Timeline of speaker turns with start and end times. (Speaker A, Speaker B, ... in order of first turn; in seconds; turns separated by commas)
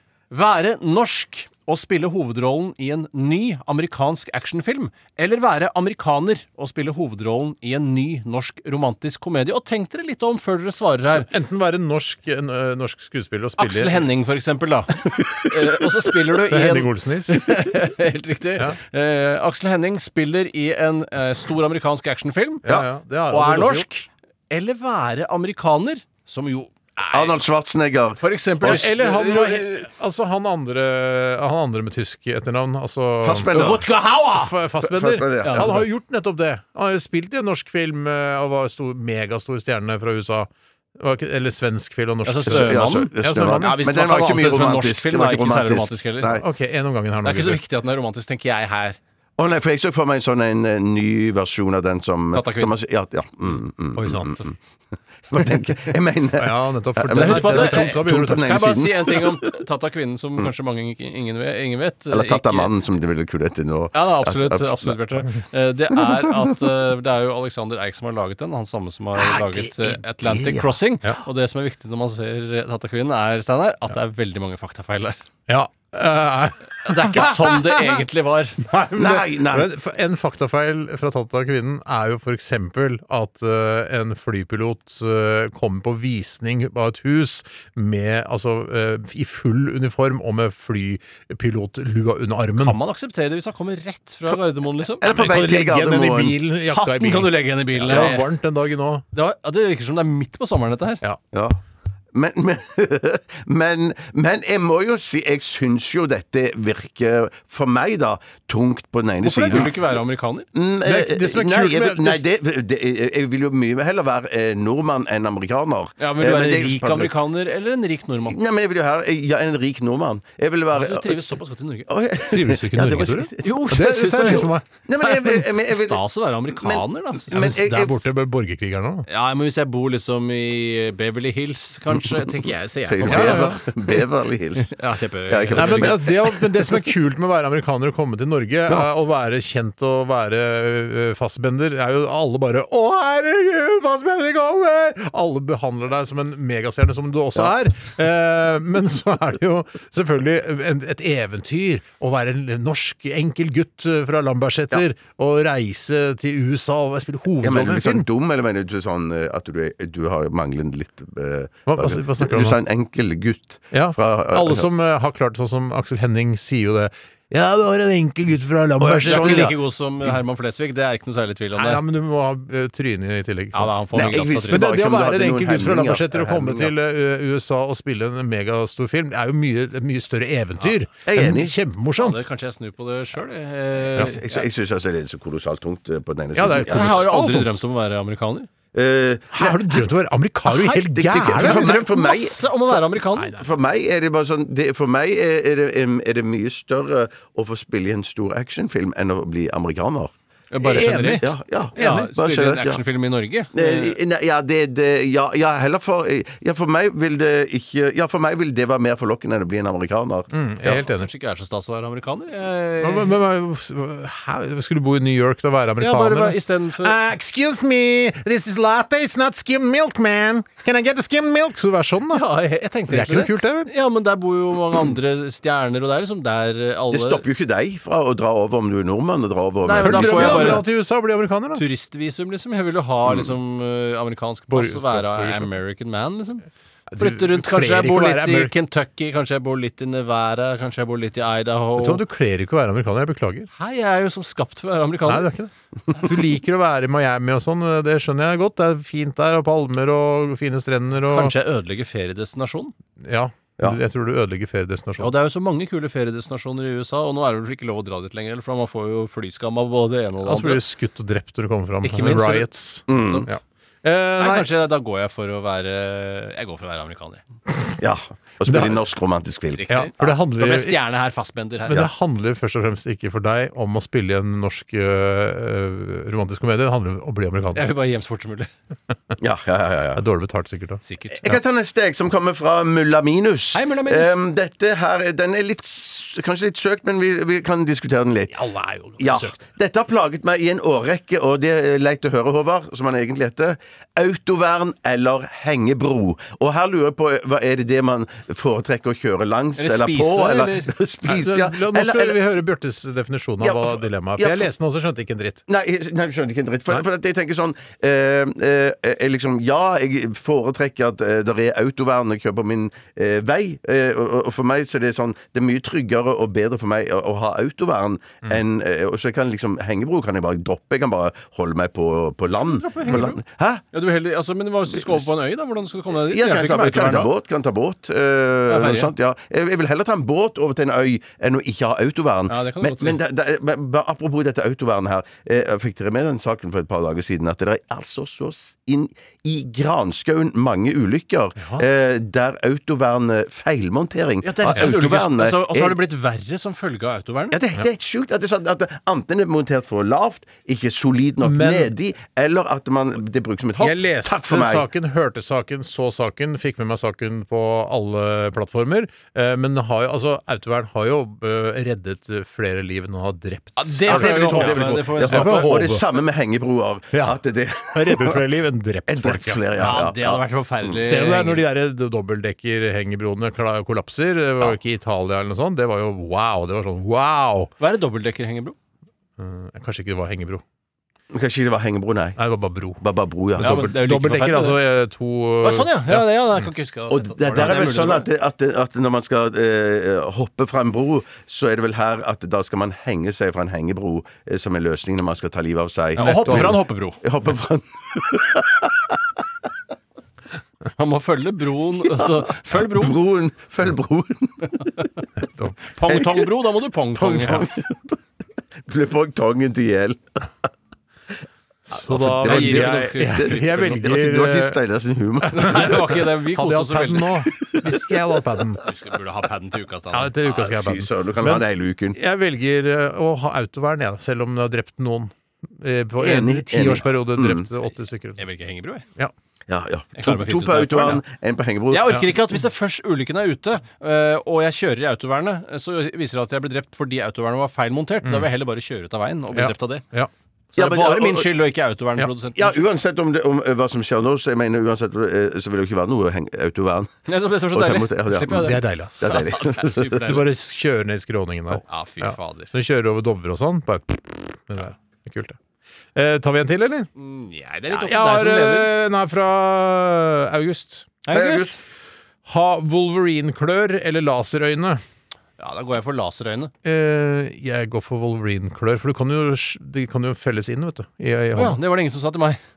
Speaker A: 0.3-11.3, Speaker B: 11.1-14.1, Speaker A: 13.6-22.6, Speaker C: 15.2-15.4, Speaker B: 16.5-17.6, Speaker B: 22.6-23.9, Speaker A: 23.3-27.4, Speaker C: 27.1-28.8, Speaker A: 28.2-29.9, Speaker B: 28.6-33.5, Speaker C: 33.2-33.9, Speaker A: 33.5-34.5, Speaker B: 34.4-43.9, Speaker C: 34.8-35.9, Speaker A: 35.4-35.8, Speaker A: 42.2-46.4, Speaker C: 42.5-46.5, Speaker B: 46.4-47.6, Speaker A: 47.2-49.0, Speaker C: 49.4-54.6, Speaker A: 52.3-52.7, Speaker B: 54.0-54.5, Speaker C: 55.3-59.5, Speaker B: 56.4-58.7, Speaker A: 57.1-62.7, Speaker C: 62.1-65.0, Speaker A: 63.9-75.2, Speaker C: 69.2-70.7, Speaker B: 75.5-78.0, Speaker A: 76.8-78.6, Speaker B: 78.6-92.8, Speaker C: 79.0-79.7, Speaker A: 92.6-95.1, Speaker C: 95.0-96.4, Speaker B: 95.0-99.0, Speaker A: 96.7-98.2, Speaker C: 97.9-98.2, Speaker A: 99.1-101.0, Speaker C: 101.3-101.6, Speaker C: 102.1-109.8, Speaker A: 109.2-110.5, Speaker C: 110.5-117.1, Speaker B: 110.8-112.3, Speaker A: 116.0-118.4, Speaker C: 118.2-121.3, Speaker A: 120.7-121.9, Speaker C: 121.9-126.0, Speaker B: 122.2-124.7, Speaker A: 123.4-127.5, Speaker C: 126.5-128.1, Speaker B: 127.3-129.1, Speaker A: 129.1-133.6, Speaker C: 132.9-134.8, Speaker B: 133.1-133.6, Speaker A: 134.7-136.1, Speaker C: 135.3-136.8, Speaker B: 135.5-158.1, Speaker C: 157.4-164.7, Speaker B: 161.7-162.6, Speaker B: 163.7-169.5, Speaker C: 168.8-169.6, Speaker A: 169.0-171.8, Speaker B: 171.6-182.2, Speaker A: 173.5-174.7, Speaker C: 173.9-176.7, Speaker C: 181.1-181.6, Speaker A: 182.0-184.5, Speaker C: 183.9-187.1, Speaker B: 186.3-187.6, Speaker A: 186.5-188.5, Speaker C: 188.7-189.8, Speaker B: 189.3-191.9, Speaker C: 190.5-192.4, Speaker A: 191.3-193.4, Speaker B: 193.2-193.4, Speaker C: 193.3-200.1, Speaker A: 200.5-204.0, Speaker B: 200.6-202.1, Speaker C: 200.7-202.8, Speaker C: 203.5-210.3, Speaker B: 210.3-211.1, Speaker A: 210.7-213.2, Speaker B: 212.8-222.3, Speaker A: 215.8-217.0, Speaker A: 222.1-227.2, Speaker B: 222.9-223.7, Speaker C: 226.9-230.6, Speaker A: 229.7-230.6, Speaker B: 229.7-231.6, Speaker A: 231.5-236.5, Speaker B: 234.5-235.5, Speaker B: 236.9-238.5, Speaker A: 237.0-242.0, Speaker B: 241.8-243.5, Speaker A: 243.5-245.3, Speaker B: 245.1-251.3, Speaker A: 251.1-252.7, Speaker B: 253.0-255.1, Speaker A: 255.0-260.6, Speaker B: 260.2-264.5, Speaker A: 261.8-263.3, Speaker C: 262.9-263.3, Speaker A: 264.2-267.2, Speaker C: 267.8-270.1, Speaker B: 268.4-268.8, Speaker A: 269.5-271.9, Speaker B: 269.7-270.8, Speaker B: 271.7-277.7, Speaker A: 277.6-278.5, Speaker C: 279.2-280.0, Speaker B: 279.9-281.4, Speaker A: 280.9-281.3, Speaker C: 281.1-288.4, Speaker A: 283.5-284.2, Speaker B: 288.3-289.4, Speaker C: 289.0-302.2, Speaker A: 299.6-300.7, Speaker B: 301.1-305.4, Speaker C: 303.4-304.5, Speaker C: 305.5-323.6, Speaker A: 322.3-323.2, Speaker A: 323.7-327.1, Speaker C: 325.9-345.8, Speaker A: 328.5-328.9, Speaker A: 332.3-333.0, Speaker A: 344.2-347.4, Speaker C: 347.3-354.7, Speaker B: 351.2-351.7, Speaker B: 353.6-365.9, Speaker A: 363.6-365.6, Speaker C: 363.9-368.2, Speaker B: 366.9-367.2, Speaker B: 367.7-369.4, Speaker C: 368.9-370.8, Speaker A: 369.6-371.4, Speaker B: 370.8-377.5, Speaker A: 377.6-378.6, Speaker B: 379.2-380.4, Speaker C: 381.1-382.2, Speaker B: 382.2-382.8, Speaker C: 382.8-383.7, Speaker B: 383.4-386.5, Speaker A: 383.4-384.6, Speaker A: 385.4-388.1, Speaker C: 386.9-399.0, Speaker A: 396.0-397.0, Speaker B: 396.0-396.6, Speaker A: 400.8-403.0, Speaker C: 402.0-404.7, Speaker B: 405.2-405.7, Speaker A: 405.8-407.5, Speaker C: 405.9-406.3, Speaker C: 406.9-408.0, Speaker C: 408.7-410.3, Speaker B: 411.7-414.6, Speaker C: 411.8-415.9, Speaker A: 412.1-413.7, Speaker A: 415.3-417.2, Speaker B: 415.4-418.6, Speaker C: 417.4-417.9, Speaker A: 418.6-420.2, Speaker B: 419.9-428.2, Speaker C: 420.3-422.0, Speaker C: 426.0-427.5, Speaker A: 428.2-428.9, Speaker C: 429.5-432.1, Speaker A: 430.0-431.0, Speaker A: 431.7-439.8, Speaker B: 438.0-438.3, Speaker B: 439.3-440.1, Speaker A: 440.6-442.6, Speaker C: 440.6-441.3, Speaker C: 442.4-450.0, Speaker A: 447.1-450.2, Speaker B: 448.2-449.3, Speaker B: 449.9-455.4, Speaker A: 451.5-452.5, Speaker B: 455.9-456.9, Speaker A: 457.0-458.7, Speaker B: 457.7-461.0, Speaker A: 461.1-461.6, Speaker C: 461.1-461.5, Speaker B: 462.3-464.8, Speaker A: 465.4-466.5, Speaker B: 466.6-471.6, Speaker A: 471.4-472.4